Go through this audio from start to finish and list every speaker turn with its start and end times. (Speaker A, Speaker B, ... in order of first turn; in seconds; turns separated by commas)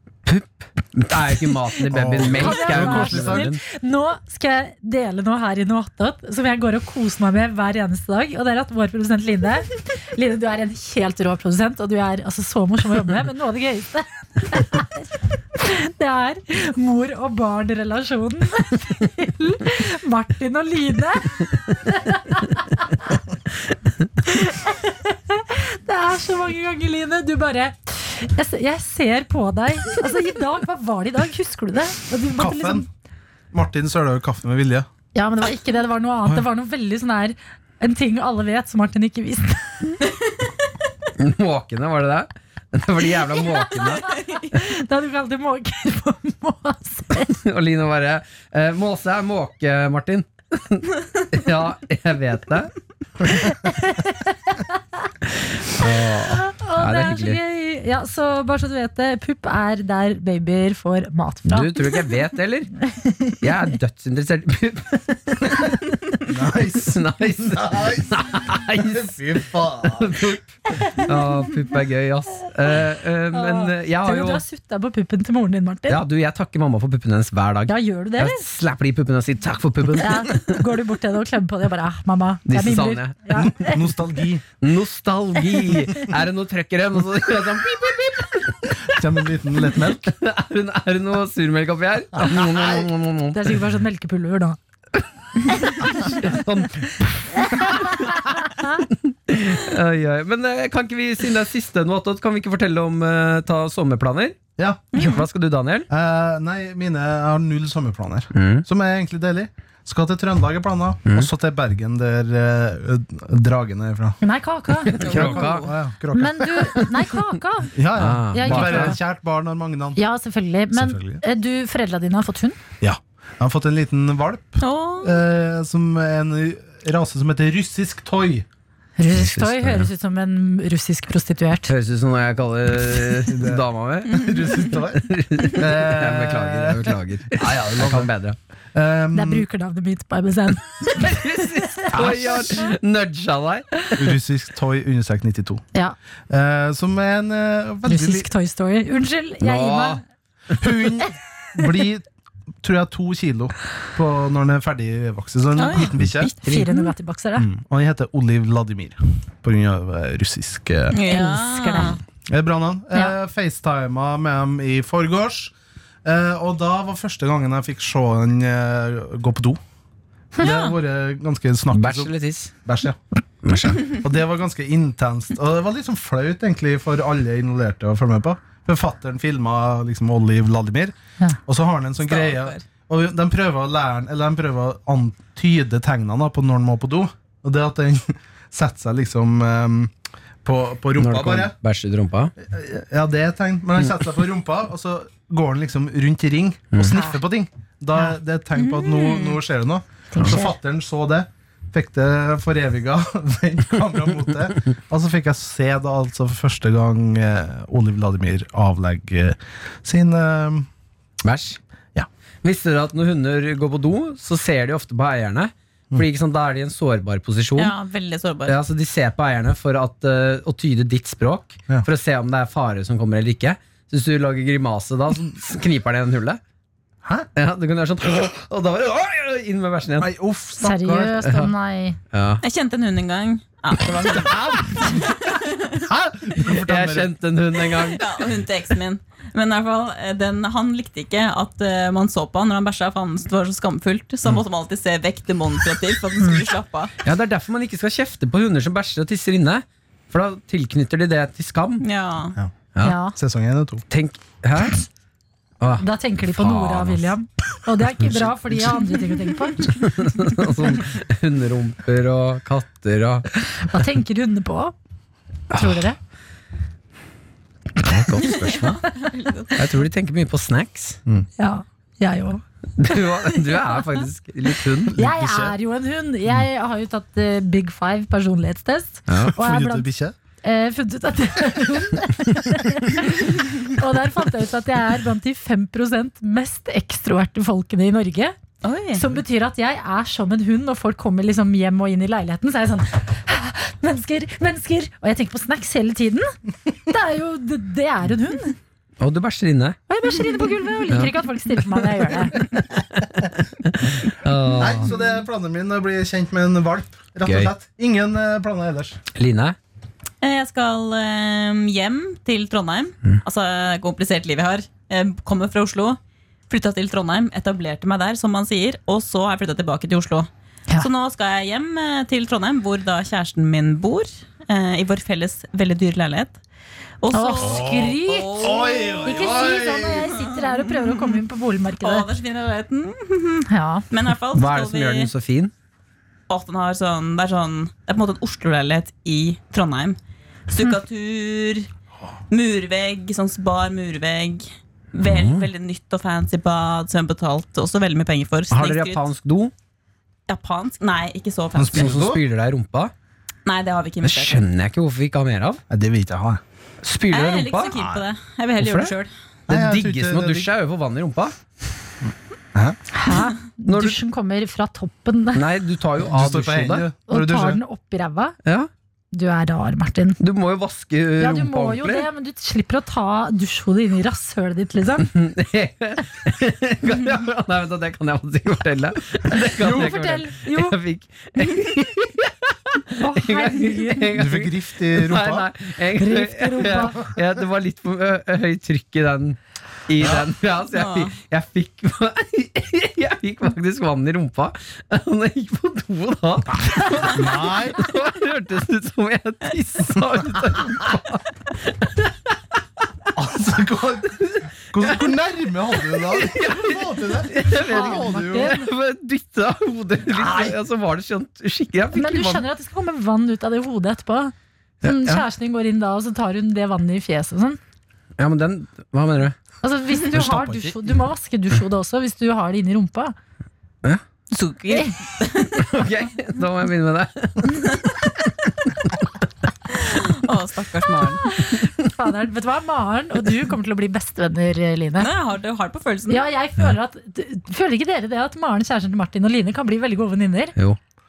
Speaker A: 0.2-3.6, Speaker B: 1.9-3.5, Speaker C: 2.2-23.1, Speaker C: 24.3-32.9, Speaker B: 32.4-32.9, Speaker B: 33.5-34.9, Speaker C: 35.1-40.0, Speaker A: 41.2-44.2, Speaker C: 43.6-47.3, Speaker A: 47.3-52.7, Speaker A: 53.3-53.5, Speaker C: 53.3-54.8, Speaker A: 55.3-57.4, Speaker C: 55.8-61.7, Speaker A: 61.5-62.7, Speaker C: 62.9-63.4, Speaker A: 63.4-65.8, Speaker B: 66.2-70.2, Speaker A: 66.8-69.1, Speaker A: 69.8-74.4, Speaker C: 73.3-76.0, Speaker A: 75.9-80.6, Speaker C: 77.7-78.5, Speaker C: 80.0-83.8, Speaker A: 82.5-83.5, Speaker B: 83.3-84.4, Speaker A: 84.6-89.0, Speaker B: 88.8-90.1, Speaker A: 89.6-93.6, Speaker B: 92.2-92.9, Speaker C: 93.3-94.6, Speaker A: 95.5-104.4, Speaker C: 97.5-98.7, Speaker B: 104.6-104.9, Speaker D: 104.9-105.2, Speaker A: 104.9-105.9, Speaker B: 105.9-114.2, Speaker A: 108.3-108.7, Speaker C: 114.2-115.0, Speaker A: 114.8-115.7, Speaker D: 115.0-115.7, Speaker B: 115.0-116.9, Speaker C: 116.1-119.0, Speaker A: 116.7-117.2, Speaker B: 117.7-120.0, Speaker A: 118.0-119.0, Speaker C: 120.0-122.6, Speaker B: 120.7-121.2, Speaker B: 122.8-128.5, Speaker D: 124.6-125.2, Speaker C: 129.0-131.7, Speaker A: 129.1-129.9, Speaker A: 131.7-138.4, Speaker B: 133.2-138.1, Speaker B: 138.7-139.5, Speaker C: 139.1-142.7, Speaker A: 140.9-144.1, Speaker B: 141.9-142.5, Speaker B: 144.0-145.6, Speaker B: 146.3-148.3, Speaker C: 147.9-150.0, Speaker A: 149.4-150.0, Speaker B: 150.6-152.1, Speaker B: 152.6-156.3, Speaker D: 155.6-155.9, Speaker A: 155.8-156.9, Speaker C: 156.2-157.5, Speaker B: 157.4-161.0, Speaker D: 160.9-162.0, Speaker C: 161.1-162.0, Speaker B: 162.3-169.6, Speaker B: 170.4-172.1, Speaker D: 170.4-170.7, Speaker A: 171.7-172.5, Speaker B: 172.6-173.0, Speaker A: 173.4-173.9, Speaker B: 173.8-191.5, Speaker D: 182.0-182.6, Speaker A: 191.0-192.3, Speaker B: 192.4-210.7, Speaker C: 196.9-197.2, Speaker D: 198.7-199.4, Speaker C: 200.1-200.6, Speaker A: 211.2-211.6, Speaker A: 212.4-217.7, Speaker D: 217.6-218.6, Speaker A: 218.5-226.4, Speaker A: 227.4-230.1, Speaker B: 230.0-231.2, Speaker C: 230.6-232.0, Speaker A: 231.2-231.5, Speaker A: 232.1-232.4, Speaker D: 232.4-235.8, Speaker B: 234.2-235.1, Speaker B: 235.7-237.1, Speaker A: 236.5-238.3, Speaker D: 237.7-246.9, Speaker A: 247.0-251.8, Speaker D: 251.8-252.4, Speaker C: 252.8-253.2, Speaker B: 253.2-253.8, Speaker A: 253.9-254.9, Speaker A: 255.6-257.1, Speaker C: 255.8-259.9, Speaker A: 259.7-263.3, Speaker C: 263.6-264.7, Speaker A: 265.5-265.9, Speaker C: 265.5-266.0, Speaker A: 267.8-268.9, Speaker D: 268.2-269.6, Speaker A: 269.6-271.0, Speaker C: 271.4-274.0, Speaker A: 272.8-274.9, Speaker B: 274.9-275.6, Speaker C: 274.9-279.9, Speaker A: 279.1-279.4, Speaker B: 279.2-280.1, Speaker C: 280.4-288.4, Speaker D: 288.6-289.0, Speaker C: 288.9-296.3, Speaker C: 296.9-298.6, Speaker A: 299.0-299.8, Speaker C: 299.9-302.4, Speaker A: 300.9-301.2, Speaker A: 301.8-304.9, Speaker B: 304.6-309.0, Speaker A: 307.3-307.5, Speaker A: 309.1-309.6, Speaker D: 310.2-316.0, Speaker D: 316.5-326.4, Speaker D: 327.0-329.5, Speaker C: 327.1-328.4, Speaker B: 327.4-330.1, Speaker C: 329.0-332.1, Speaker D: 330.1-331.2, Speaker D: 331.8-335.1, Speaker C: 333.5-333.9, Speaker A: 334.3-335.5, Speaker D: 336.3-340.0, Speaker D: 340.5-341.7, Speaker D: 342.3-349.1, Speaker A: 345.0-345.5, Speaker A: 348.5-349.5, Speaker D: 350.3-351.9, Speaker B: 351.6-352.2, Speaker A: 351.7-352.9, Speaker D: 353.4-354.4, Speaker A: 354.0-355.6, Speaker B: 355.7-356.4, Speaker A: 356.8-357.8, Speaker D: 357.1-359.1, Speaker A: 358.6-358.9, Speaker B: 359.5-360.5, Speaker A: 359.5-361.4, Speaker B: 362.5-362.8, Speaker C: 362.9-365.5, Speaker A: 363.7-364.0, Speaker A: 365.4-366.9, Speaker B: 366.0-367.6, Speaker C: 367.1-368.4, Speaker A: 368.4-368.7, Speaker C: 369.1-370.2, Speaker A: 370.2-372.1, Speaker C: 371.2-375.1, Speaker A: 375.0-402.4, Speaker B: 379.6-380.0, Speaker C: 379.6-380.8, Speaker C: 382.9-384.2, Speaker B: 384.1-385.5, Speaker C: 386.0-387.0, Speaker B: 390.0-390.3, Speaker D: 390.7-391.1, Speaker B: 397.1-397.8, Speaker B: 403.1-408.6, Speaker A: 404.2-405.0, Speaker A: 405.9-412.4, Speaker C: 407.5-408.7, Speaker B: 410.1-410.6, Speaker C: 411.9-417.6, Speaker A: 414.8-415.2, Speaker A: 418.2-419.4, Speaker C: 419.6-423.1, Speaker B: 420.1-420.8, Speaker D: 424.3-425.9, Speaker A: 425.6-429.1, Speaker D: 429.7-431.3, Speaker C: 431.2-435.1, Speaker D: 435.0-436.3, Speaker C: 436.1-440.6